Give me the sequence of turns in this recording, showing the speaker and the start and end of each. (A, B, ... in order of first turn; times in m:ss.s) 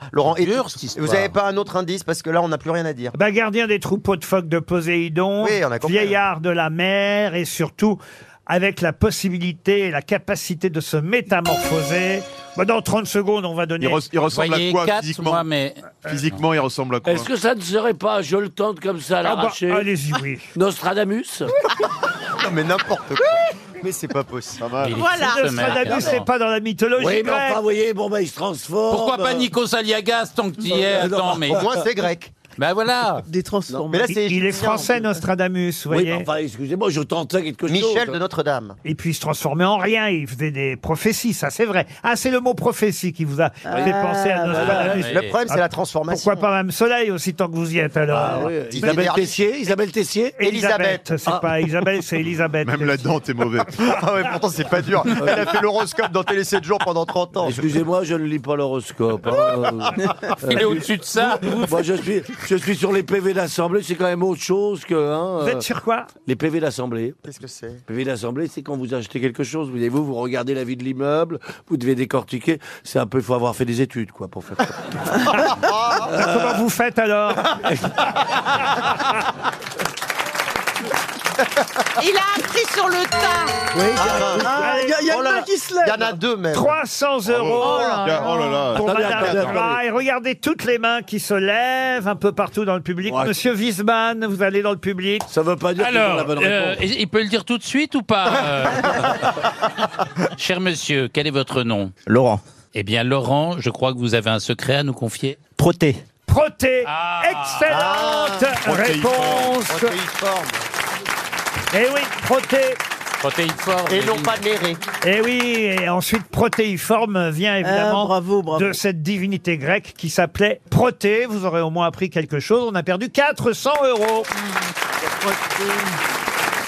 0:00.1-0:03.1 A
0:00.2-0:01.3 B
0:03.1-0:14.1 C
0:05.4-0:06.2 A
0:13.8-0:15.4 D
0:14.3-0:16.4 B
0:16.0-0:17.3 D
0:17.0-0:19.9 E
0:19.2-0:20.5 C
0:20.6-0:21.5 E
0:21.8-0:24.6 A
0:24.6-0:25.0 D
0:24.8-0:26.2 B
0:24.9-0:26.2 F
0:25.2-0:27.6 C
0:27.0-0:29.5 E
0:28.9-0:31.7 B
0:30.6-0:31.8 E
0:31.4-0:32.3 A
0:32.6-0:33.3 B
0:33.3-0:34.2 G
0:33.9-0:35.0 A
0:34.0-0:36.3 C
0:35.9-0:38.2 E
0:37.7-0:38.8 A
0:38.8-0:48.5 C
0:43.7-0:44.6 G
0:43.7-0:45.0 E
0:44.6-0:46.4 A
0:44.8-0:45.4 B
0:48.1-0:50.4 E
0:48.7-0:49.4 A
0:50.4-0:53.1 C
0:50.4-0:51.0 A
0:52.6-0:53.8 D
0:53.8-0:57.6 A
0:57.4-1:05.6 E
0:59.3-0:59.6 B
1:00.4-1:01.8 B
1:05.4-1:06.1 C
1:06.3-1:07.2 E
1:07.2-1:07.8 A
1:07.9-1:15.1 E
1:15.3-1:16.2 A
1:16.1-1:16.6 E
1:16.1-1:17.6 C
1:17.6-1:18.0 E
1:22.0-1:23.7 F
1:23.7-1:24.6 E
1:24.0-1:24.5 A
1:24.4-1:26.2 G
1:24.6-1:25.0 C
1:25.0-1:26.8 A
1:26.5-1:35.3 C
1:27.3-1:29.5 D
1:27.6-1:28.7 F
1:27.6-1:28.2 A
1:28.8-1:29.8 E
1:33.1-1:33.4 E
1:35.3-1:36.8 E
1:35.8-1:39.3 B
1:40.4-1:41.9 B
1:42.7-1:45.4 B
1:46.3-1:49.9 C
1:46.9-1:47.6 B
1:47.7-1:48.5 A
1:48.5-1:49.6 D
1:49.7-1:50.6 A
1:51.7-1:52.8 C
1:53.2-1:54.4 B
1:53.9-1:54.8 A
1:55.0-2:04.3 C
1:57.6-1:58.8 G
2:05.2-2:05.9 F